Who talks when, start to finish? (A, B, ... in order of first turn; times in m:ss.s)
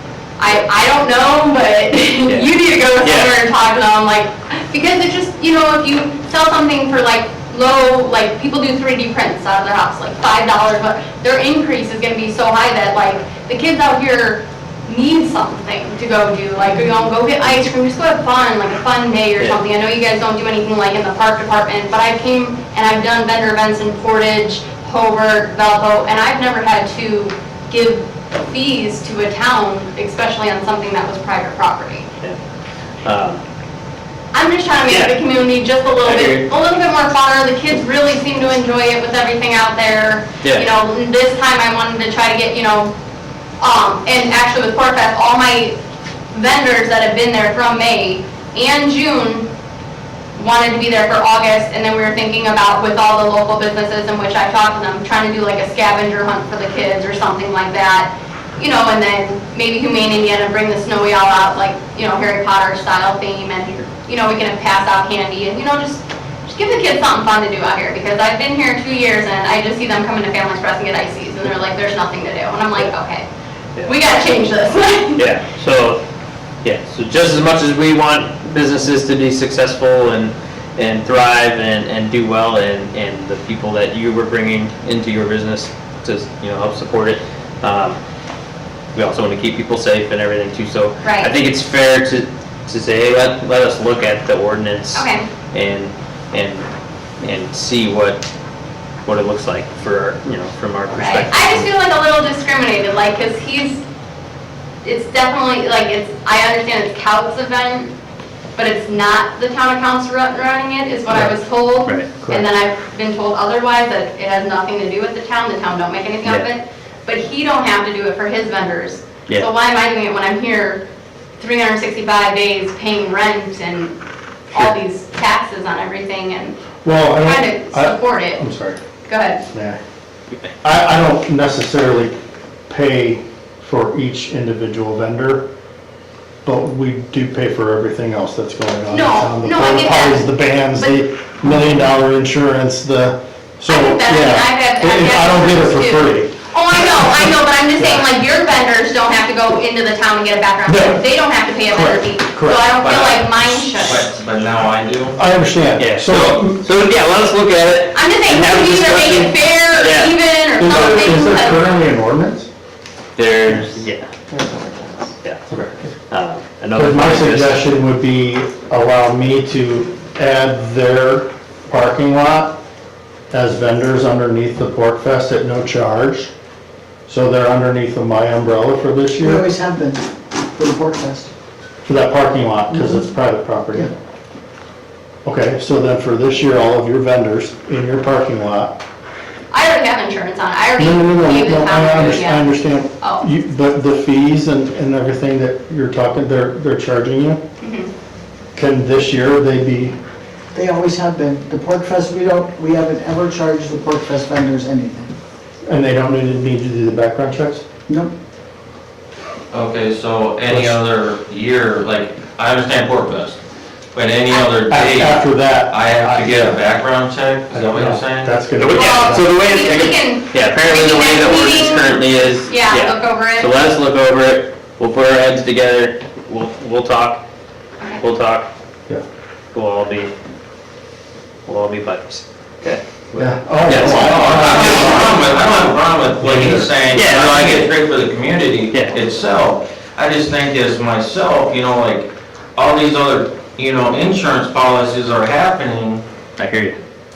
0:00.4-0:32.1 A
0:03.0-0:03.4 B
0:33.0-0:33.4 B
0:34.3-0:42.9 A
0:34.9-0:35.1 B
0:36.0-0:36.4 B
0:43.6-0:45.8 A
0:46.3-0:49.5 A
0:50.4-1:13.3 A
1:13.8-1:14.1 B
1:13.8-1:15.3 A
1:15.2-1:16.0 B
1:16.6-1:28.0 B
1:28.9-1:36.7 B
1:31.0-1:31.3 A
1:34.9-1:35.3 A
1:37.2-1:38.2 B
1:39.0-1:41.7 B
1:40.9-1:43.8 A
1:44.8-1:47.9 A
1:48.6-2:00.8 A
1:51.1-1:51.4 C
1:52.2-1:52.5 C
2:01.4-2:04.0 A
2:04.5-2:06.6 A
2:06.8-2:08.8 C
2:07.2-2:08.4 A
2:09.0-2:09.4 A
2:09.5-2:09.8 C
2:10.6-2:12.1 C
2:12.7-2:15.4 C
2:16.4-2:26.4 C
2:18.9-2:21.8 A
2:23.7-2:34.1 A
2:27.8-2:28.1 C
2:30.6-2:31.0 C
2:31.7-2:32.7 C
2:32.8-2:35.2 D
2:35.2-2:36.6 C
2:35.8-2:40.1 B
2:37.9-2:41.7 A
2:40.6-2:42.5 C
2:43.2-2:44.1 B
2:44.3-2:45.9 C
2:46.1-2:47.6 B
2:46.7-2:52.6 C
2:53.3-2:56.3 C
2:57.1-2:59.4 C
2:59.2-3:01.3 E
3:01.8-3:03.9 C
3:02.7-3:03.1 E
3:05.2-3:08.8 C
3:09.5-3:13.2 A
3:10.8-3:17.4 C
3:17.6-3:17.9 A
3:18.5-3:20.0 C
3:20.5-3:25.1 E
3:25.6-3:27.6 C
3:29.5-3:33.4 D
3:30.5-3:30.8 C
3:33.9-3:38.4 D
3:34.7-3:36.6 C
3:37.5-3:39.3 C
3:38.5-3:47.2 B
3:38.7-3:43.5 A
3:48.0-3:48.5 B
3:49.5-3:50.1 B
3:51.4-3:55.0 B
3:53.2-3:55.4 C
3:53.6-4:06.0 D
3:56.2-3:56.7 C
3:56.9-3:57.7 B
3:58.7-3:59.0 B
4:06.4-4:06.8 B